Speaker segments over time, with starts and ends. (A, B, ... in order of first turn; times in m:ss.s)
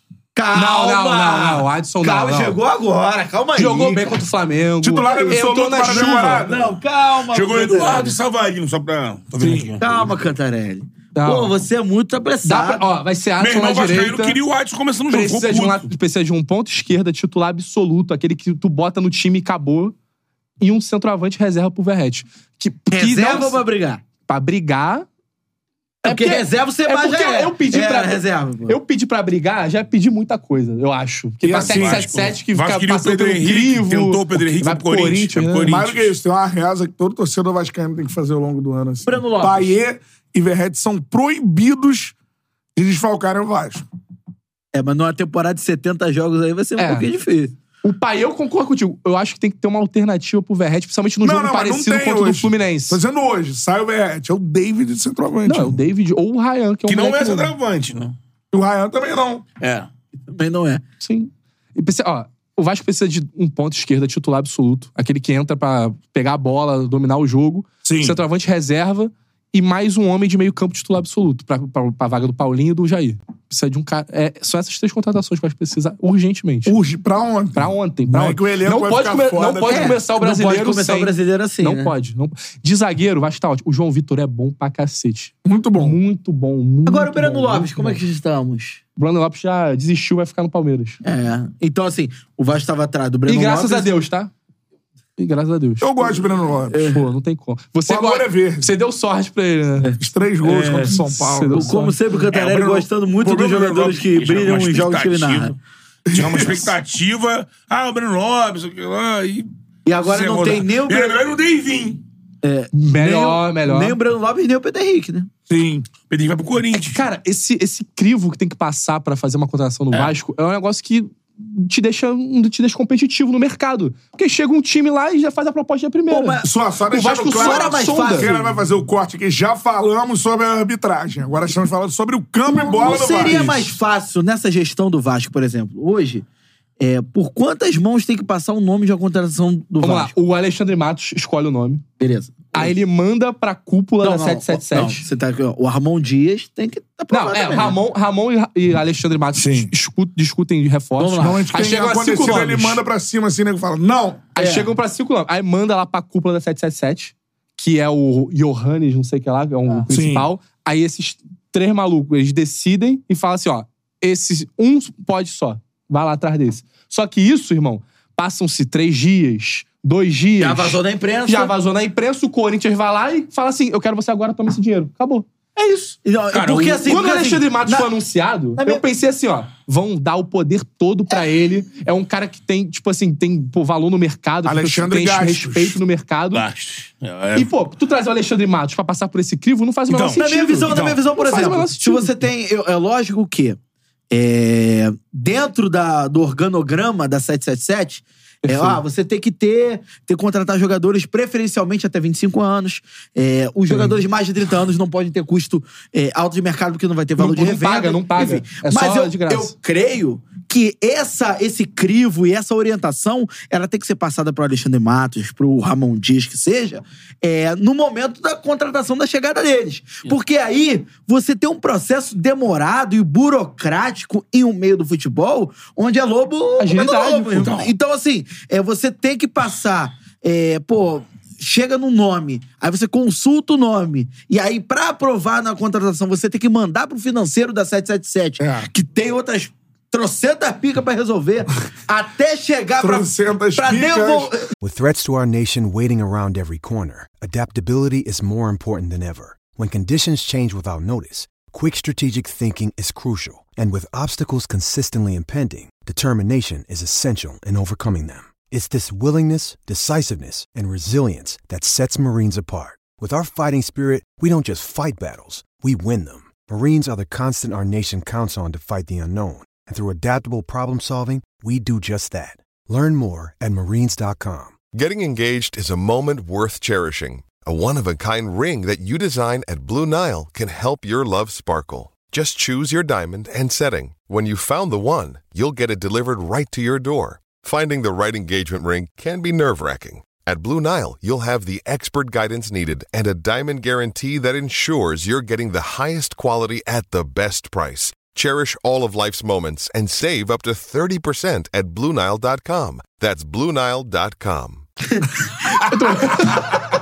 0:00.3-0:04.2 A
0:00.5-0:02.6 B
0:03.6-0:06.4 B
0:04.8-0:06.7 C
0:05.3-0:08.2 A
0:07.3-0:10.1 D
0:09.4-0:09.7 C
0:09.8-0:12.8 A
0:11.1-0:11.5 B
0:12.4-0:14.4 B
0:13.4-0:15.9 D
0:15.1-0:19.9 B
0:20.6-0:23.6 B
0:22.9-0:24.0 A
0:24.3-0:25.0 B
0:26.0-0:28.8 A
0:26.0-0:35.6 B
0:31.4-0:32.1 C
0:31.5-0:36.1 D
0:35.4-0:42.1 C
0:39.0-0:39.8 A
0:42.8-0:43.8 C
0:44.7-0:47.5 A
0:46.8-0:47.1 B
0:47.8-0:53.0 B
0:51.2-0:55.8 C
0:55.4-0:57.5 B
0:56.9-0:58.1 D
0:58.5-0:59.4 C
0:59.6-0:59.9 D
1:00.3-1:00.8 A
1:01.0-1:16.8 B
1:07.8-1:08.2 C
1:16.6-1:20.0 C
1:17.5-1:28.0 B
1:19.6-1:21.9 A
1:25.4-1:26.0 C
1:26.8-1:28.8 A
1:29.0-1:31.0 B
1:31.0-1:33.9 A
1:33.3-1:34.3 B
1:35.2-1:36.1 B
1:35.8-1:36.8 C
1:36.7-1:37.0 A
1:36.9-1:39.9 B
1:37.9-1:38.7 C
1:39.8-1:41.0 A
1:40.0-1:41.7 C
1:40.8-1:42.0 B
1:41.5-1:45.6 A
1:42.3-1:45.6 D
1:46.1-1:46.7 C
1:46.1-1:49.5 D
1:49.8-1:51.2 A
1:50.0-1:52.0 D
1:52.4-1:55.3 A
1:52.7-1:54.0 B
1:55.5-1:55.8 C
1:56.1-1:57.0 D
1:56.7-2:08.3 B
2:06.1-2:06.5 A
2:06.4-2:13.7 C
2:07.2-2:08.6 A
2:12.4-2:16.2 A
2:16.8-2:20.1 A
2:19.8-2:21.8 B
2:22.0-2:22.7 A
2:22.5-2:25.0 B
2:24.0-2:27.8 A
2:27.1-2:32.8 B
2:29.3-2:29.7 C
2:31.0-2:31.5 A
2:31.2-2:34.2 C
2:34.4-2:56.0 B
2:34.4-2:34.7 A
2:39.9-2:40.3 C
2:50.4-2:51.5 A
2:56.0-2:57.9 A
2:56.3-2:56.8 D
2:56.8-3:06.4 B
2:58.6-2:58.8 A
3:04.4-3:05.8 C
3:06.3-3:07.5 D
3:07.4-3:12.1 B
3:09.9-3:11.0 D
3:10.1-3:13.6 A
3:14.1-4:04.4 A
3:18.4-3:18.8 B
3:27.2-3:29.5 B
3:46.6-3:47.5 B
3:47.4-3:47.7 D
3:58.4-3:58.7 C
4:02.8-4:04.3 C
4:04.6-4:34.6 E
4:34.6-5:04.6 F
5:05.6-5:06.5 B